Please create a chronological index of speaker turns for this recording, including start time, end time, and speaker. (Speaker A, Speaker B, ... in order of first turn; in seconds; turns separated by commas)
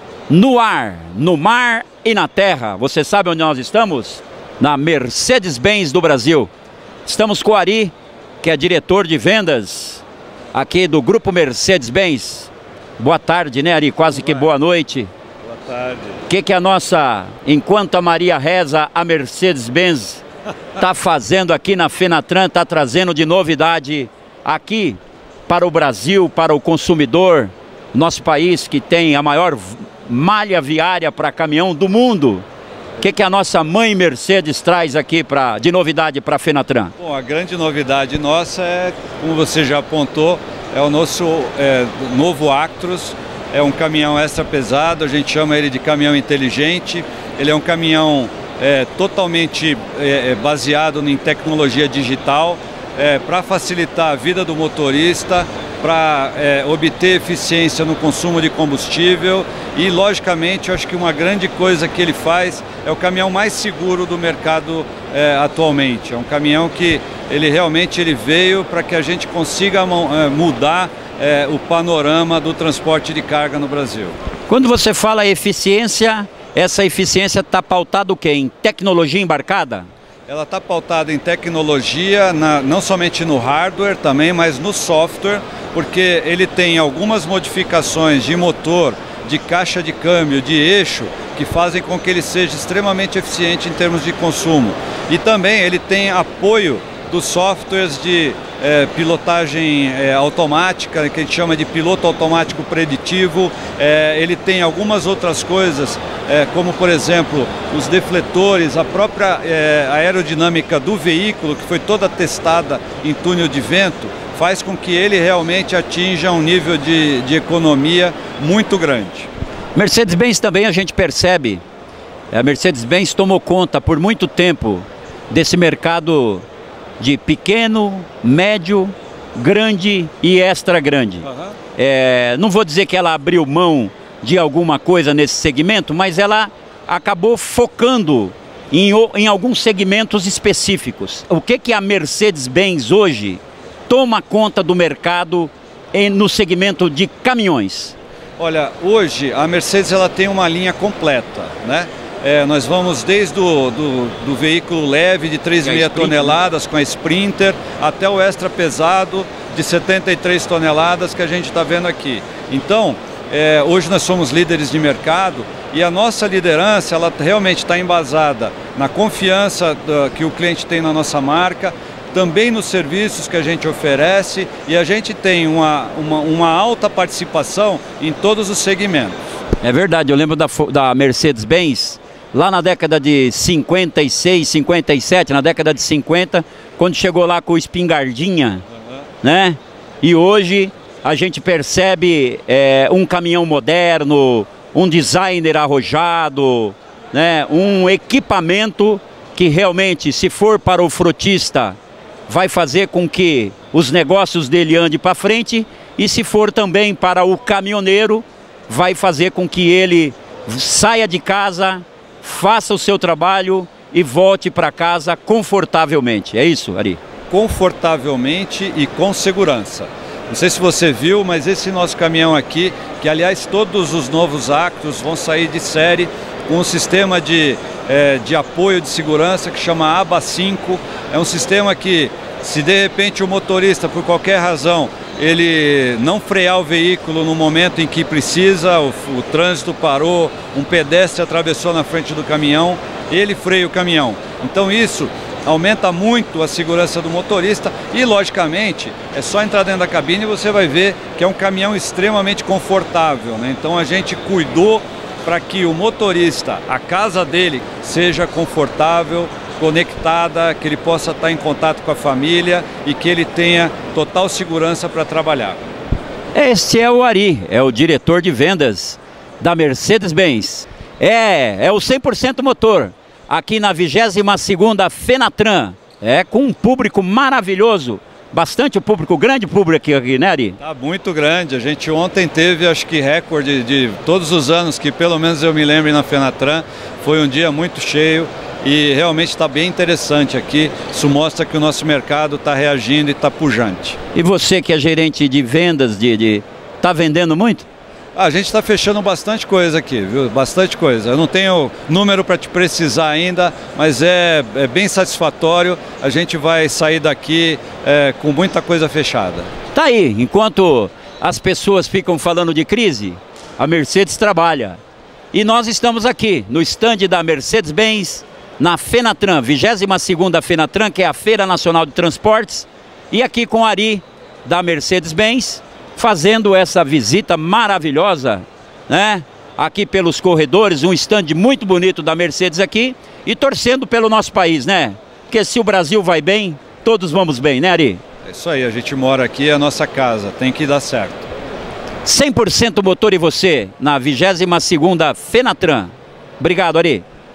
Speaker A: 0.3-6.5, Speaker A: 7.0-15.1, Speaker B: 14.2-14.5, Speaker B: 15.4-16.3, Speaker A: 16.3-20.2, Speaker A: 20.8-32.5, Speaker A: 33.0-36.9, Speaker B: 37.0-74.2, Speaker A: 74.5-79.9, Speaker B: 80.3-119.3, Speaker A: 119.8-121.6, Speaker A: 122.3-126.4, Speaker A: 127.0-147.9, Speaker B: 131.2-131.6, Speaker B: 148.4-179.2, Speaker A: 155.6-156.4, Speaker A: 179.6-188.6, Speaker A: 189.2-201.8, Speaker A: 202.3-217.0, Speaker B: 217.3-265.6, Speaker A: 266.3-280.6, Speaker B: 280.6-294.0, Speaker A: 294.1-297.7, Speaker B: 298.1-309.5, Speaker A: 309.7-314.8, Speaker A: 315.3-338.0, Speaker B: 338.2-341.3, Speaker A: 342.1-347.0